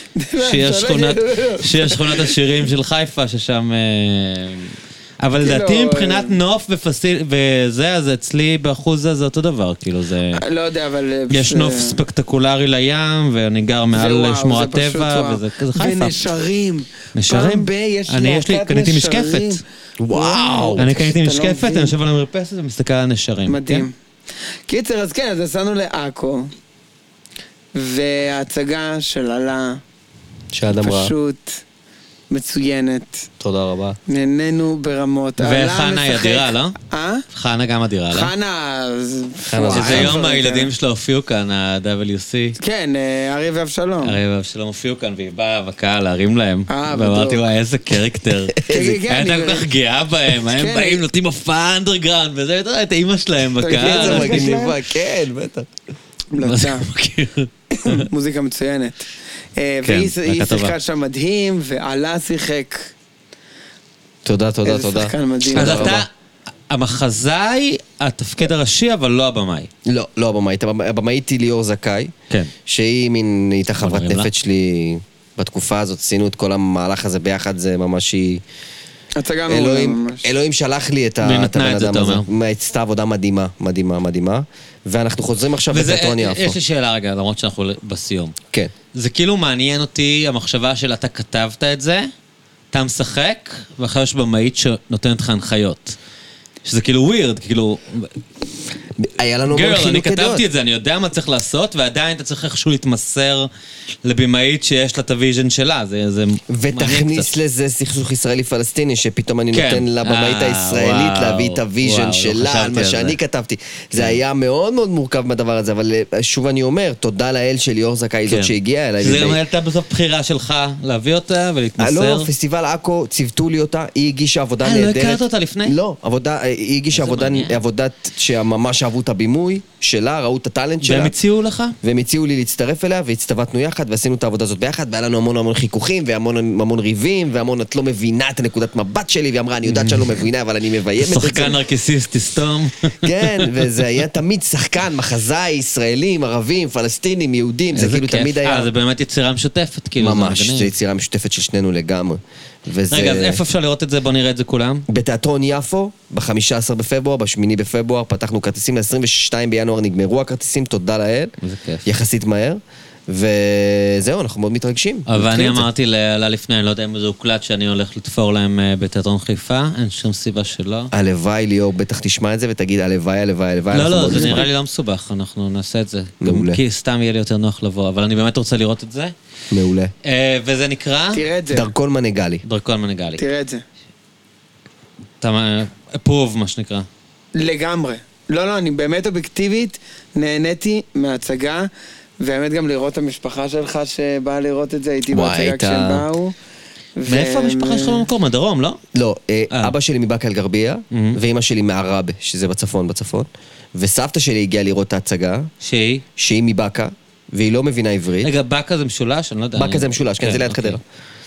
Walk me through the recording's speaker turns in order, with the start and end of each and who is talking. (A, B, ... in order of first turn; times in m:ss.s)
0:00.2-0:02.4 A
0:00.4-0:10.4 B
0:05.4-0:06.4 A
0:10.3-0:12.0 A
0:11.3-0:16.2 B
0:13.9-0:21.9 A
0:17.1-0:19.6 B
0:20.0-0:20.9 C
0:20.8-0:23.8 B
0:23.5-0:23.9 A
0:24.7-0:26.5 A
0:27.7-0:29.8 A
0:30.5-0:31.1 C
0:30.7-0:31.6 A
0:32.3-0:33.3 A
0:33.4-0:34.0 C
0:34.1-0:37.2 A
0:35.4-0:36.8 B
0:37.3-0:38.3 B
0:38.1-0:40.7 A
0:39.5-0:40.2 C
0:39.7-0:42.6 B
0:42.6-0:44.2 A
0:44.0-0:54.4 B
0:46.7-0:47.4 A
0:48.6-0:49.7 A
0:50.5-0:51.0 A
0:53.6-0:54.8 A
0:53.7-0:55.7 C
0:56.3-0:56.9 A
0:56.4-0:58.1 B
0:57.7-1:02.9 A
0:59.8-1:00.7 B
1:04.2-1:06.0 C
1:04.6-1:06.0 A
1:05.5-1:06.1 B
1:06.7-1:09.7 B
1:09.9-1:12.1 C
1:12.6-1:18.4 C
1:13.8-1:14.3 B
1:19.2-1:20.2 A
1:19.5-1:26.6 C
1:21.2-1:22.3 B
1:25.7-1:28.4 B
1:28.9-1:32.1 B
1:32.7-1:36.0 B
1:36.6-1:38.2 B
1:39.0-1:40.4 C
1:39.5-1:43.5 B
1:44.0-1:47.3 B
1:46.5-1:59.4 C
1:49.5-1:53.2 B
1:58.3-2:02.3 B
2:01.8-2:11.1 C
2:04.6-2:05.8 B
2:06.9-2:07.6 B
2:10.8-2:11.8 B
2:11.8-2:21.6 C
2:19.6-2:20.1 B
2:21.0-2:23.5 B
2:23.0-2:28.7 C
2:27.7-2:30.7 B
2:30.0-2:33.4 C
2:32.9-2:34.8 B
2:34.9-2:41.3 C
2:41.4-2:41.8 B
2:41.8-2:45.7 C
2:45.1-2:50.9 B
2:50.9-2:54.5 C
2:53.7-2:59.1 B
2:54.1-2:54.5 A
2:56.2-2:56.6 C
2:59.5-2:59.9 C
3:00.0-3:01.2 B
3:01.1-3:01.7 A
3:01.5-3:02.4 C
3:02.4-3:03.2 B
3:03.2-3:03.6 A
3:05.2-3:06.9 B
3:07.4-3:11.7 A
3:12.2-3:16.3 A
3:15.1-3:16.0 C
3:17.0-3:18.0 A
3:17.1-3:18.8 B
3:18.9-3:25.5 C
3:20.9-3:21.2 B
3:25.6-3:26.0 B
3:26.2-3:28.3 C
3:28.2-3:30.8 B
3:29.6-3:30.8 C